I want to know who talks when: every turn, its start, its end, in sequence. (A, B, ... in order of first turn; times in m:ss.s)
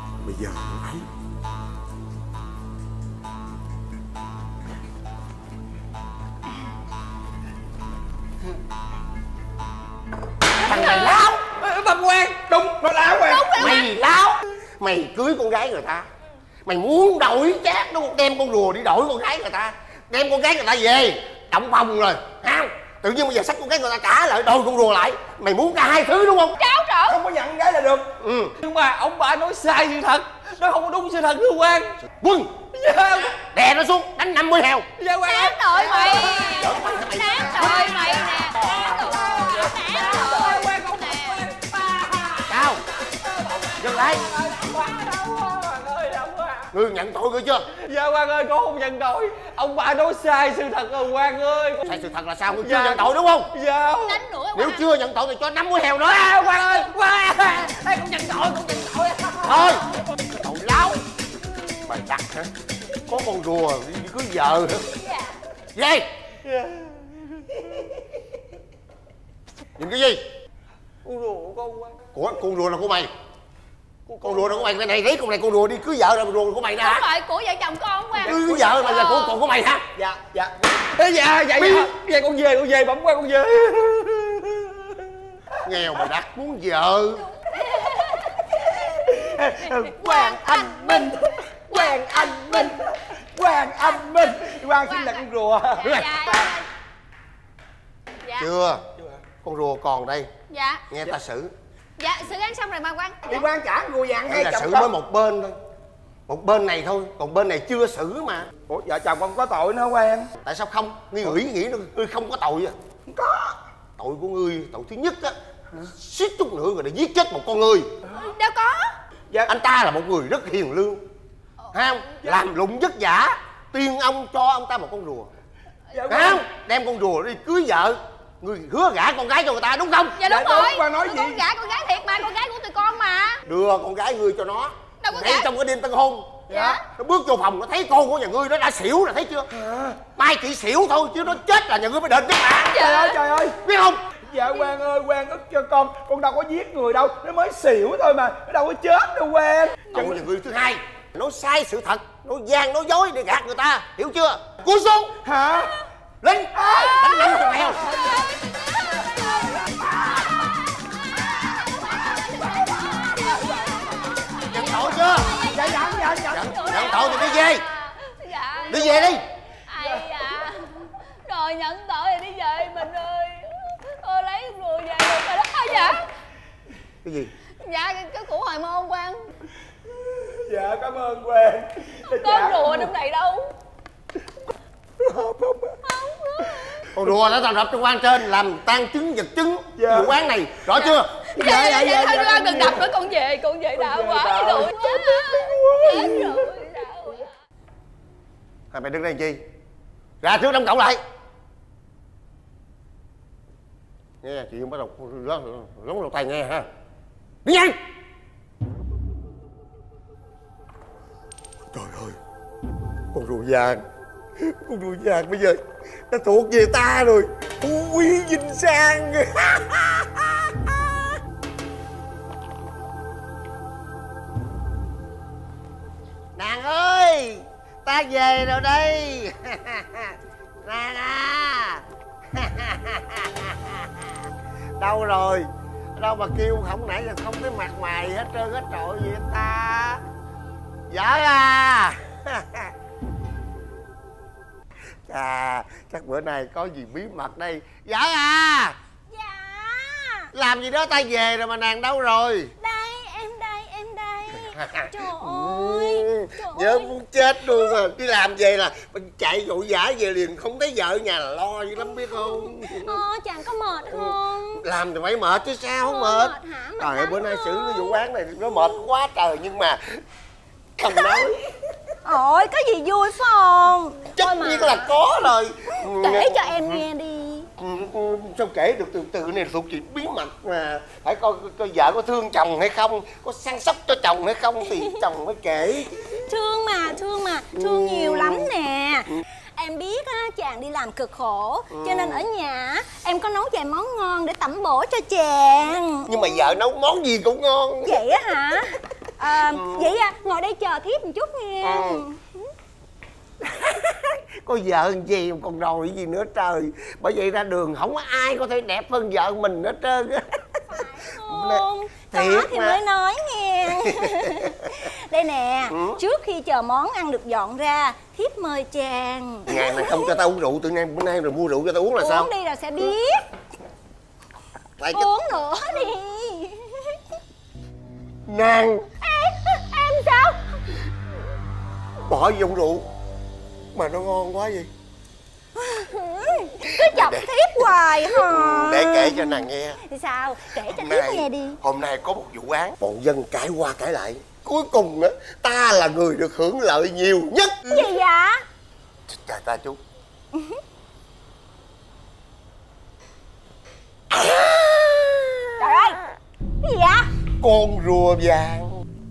0:00.2-0:01.0 A
0:10.7-0:11.3 A
0:10.7-0:11.2 B
0:10.7-0:11.1 C
0:11.6-0:12.3 D
0:12.4-0:13.7 C
0:13.2-0:13.8 B
0:13.5-0:16.0 A
0:16.6-0:26.6 A
0:26.6-0:27.1 B
0:27.0-0:28.1 C
0:28.2-0:28.5 A
0:28.6-0:31.9 D
0:32.2-0:32.5 A
0:32.8-0:33.2 D
0:33.5-0:34.9 A
0:35.0-0:35.5 D
0:35.4-0:41.4 B
0:36.0-0:37.8 A
0:37.6-0:38.0 C
0:40.4-0:41.0 D
0:42.5-0:42.8 A
0:43.8-0:44.2 A
0:44.6-0:46.6 D
0:46.7-0:47.6 A
0:47.8-0:51.8 D
0:51.8-0:53.5 A
0:52.6-0:53.0 D
0:53.5-0:54.0 D
0:54.2-0:54.8 B
0:54.5-0:56.8 A
0:56.5-0:56.9 D
0:59.4-0:59.8 A
1:00.4-1:00.8 A
1:03.1-1:04.9 A
1:05.7-1:06.0 A
1:09.8-1:10.2 A
1:11.0-1:11.9 D
1:12.1-1:13.1 A
1:14.1-1:14.6 D
1:14.2-1:17.0 A
1:16.8-1:19.4 B
1:18.2-1:19.8 A
1:18.3-1:18.7 C
1:19.9-1:20.6 C
1:21.0-1:24.6 D
1:25.6-1:27.3 A
1:29.1-1:32.8 C
1:29.7-1:31.1 B
1:31.7-1:32.7 B
1:33.3-1:36.5 C
1:33.6-1:34.1 B
1:34.8-1:35.2 B
1:35.8-1:36.6 B
1:38.4-1:38.8 A
1:39.0-1:39.2 C
1:39.3-1:40.3 A
1:40.5-1:40.8 B
1:40.9-1:41.5 A
1:42.0-1:43.4 B
1:43.2-1:44.9 C
1:44.3-1:45.5 A
1:46.3-1:48.5 A
1:48.6-1:50.3 C
1:50.4-1:52.7 A
1:53.1-1:53.5 C
1:54.0-1:55.3 A
1:55.9-1:57.9 A
1:58.4-1:58.8 B
1:59.5-2:01.0 A
2:01.7-2:05.3 A
2:02.1-2:02.5 C
2:05.9-2:06.5 C
2:06.1-2:10.2 A
2:10.2-2:11.5 C
2:10.2-2:13.4 B
2:13.4-2:19.4 A
2:15.1-2:15.4 B
2:16.5-2:16.8 C
2:16.5-2:16.8 B
2:19.5-2:20.1 C
2:20.1-2:22.8 A
2:22.7-2:23.1 B
2:22.8-2:23.6 C
2:23.6-2:24.0 A
2:24.1-2:30.2 C
2:29.9-2:35.1 A
2:35.1-2:35.7 C
2:36.2-2:37.8 A
2:36.5-2:38.0 C
2:42.6-2:43.2 B
2:44.5-2:45.4 A
2:44.5-2:49.2 B
2:45.4-2:46.7 C
2:46.2-2:47.6 A
2:48.7-2:49.2 A
2:49.7-2:50.4 B
2:51.3-2:53.4 B
2:54.0-2:55.9 B
2:57.6-2:59.2 B
3:00.4-3:02.9 C
3:02.1-3:03.4 B
3:05.0-3:05.7 C
3:07.0-3:11.1 A
3:09.7-3:10.7 C
3:10.8-3:17.2 B
3:11.2-3:13.0 C
3:13.7-3:16.4 C
3:18.7-3:19.4 A
3:20.2-3:21.0 A
3:24.2-3:26.6 A
3:27.4-3:27.8 A
3:31.7-3:32.2 A
3:33.1-3:33.8 A
3:34.4-3:37.3 A
3:37.6-3:39.1 C
3:38.6-3:39.8 A
3:46.4-3:51.8 A
3:52.3-3:53.8 A
3:54.8-3:55.4 A
3:56.0-4:00.0 A
4:00.9-4:02.7 A
4:05.1-4:08.8 A
4:09.1-4:10.3 E
4:10.3-4:12.5 A
4:12.6-4:16.9 E
4:14.5-4:23.0 A
4:21.8-4:24.6 E
4:23.9-4:30.0 A
4:25.8-4:28.0 E
4:30.8-4:31.4 A
4:30.9-4:31.2 E
4:32.0-4:34.9 E
4:34.2-4:36.8 A
4:35.8-4:37.5 E
4:37.6-4:45.9 A
4:46.2-4:56.4 E
4:47.6-4:48.4 A
4:51.7-4:52.2 A
4:56.0-4:58.0 A
4:57.8-5:02.2 E
4:59.5-5:00.0 A
5:01.6-5:02.0 A
5:03.5-5:10.3 A
5:10.7-5:20.1 E
5:11.2-5:12.8 A
5:15.7-5:16.0 A
5:19.5-5:22.3 A
5:22.0-5:23.2 E
5:24.8-5:25.1 A
5:24.9-5:26.7 E
5:28.3-5:28.8 A
5:29.0-5:30.5 E
5:32.0-5:32.8 A
5:33.7-5:34.7 A
5:35.6-5:41.6 E
5:36.8-5:37.3 A
5:38.1-5:39.8 A
5:40.7-5:47.9 A
5:47.7-5:48.4 E
5:49.1-5:49.8 A
5:54.2-5:56.0 E
5:56.6-5:57.1 E
5:57.4-5:58.7 A